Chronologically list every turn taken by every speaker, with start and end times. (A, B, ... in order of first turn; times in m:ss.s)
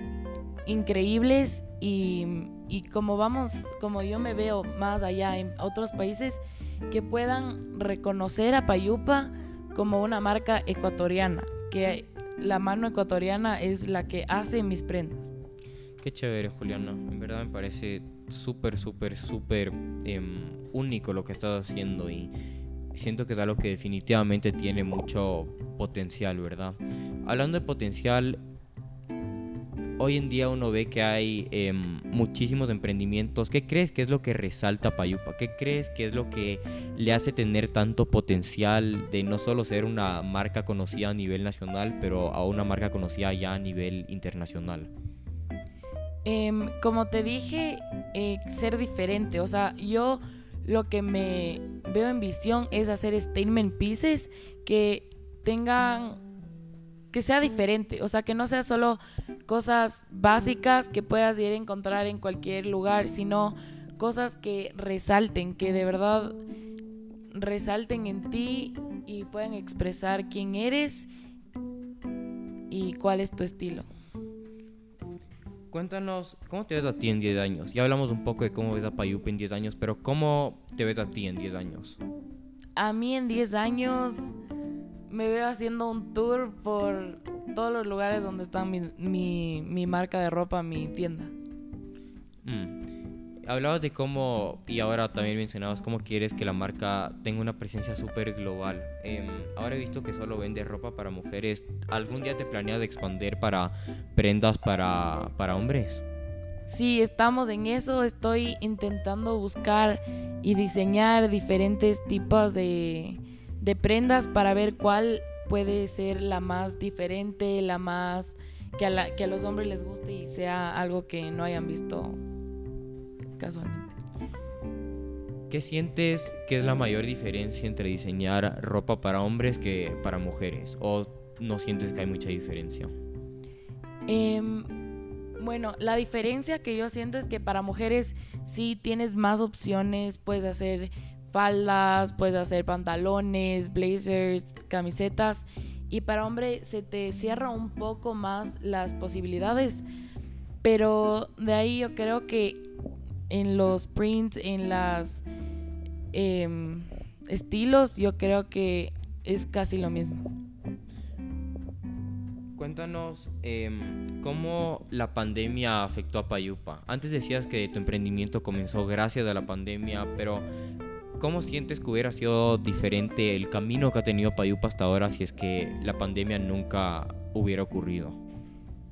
0:00.7-0:15.3 A
0:16.0-0:22.3 B
0:22.9-0:28.4 B
0:30.0-0:44.9 B
0:46.2-0:56.2 A
0:57.1-1:06.4 A
1:07.3-1:11.1 A
1:12.7-1:13.9 A
1:15.7-1:22.0 B
1:22.8-1:24.2 A
1:25.1-1:31.3 A
1:32.4-1:32.8 B
1:33.4-1:46.0 B
1:46.7-2:02.2 A
2:03.4-2:04.0 A
2:05.5-2:12.9 B
2:14.1-2:14.7 A
2:15.4-2:29.8 A
2:30.6-2:32.6 A
2:33.3-2:35.2 A
2:36.1-2:40.3 A
2:42.6-2:50.5 B
2:51.2-2:58.2 B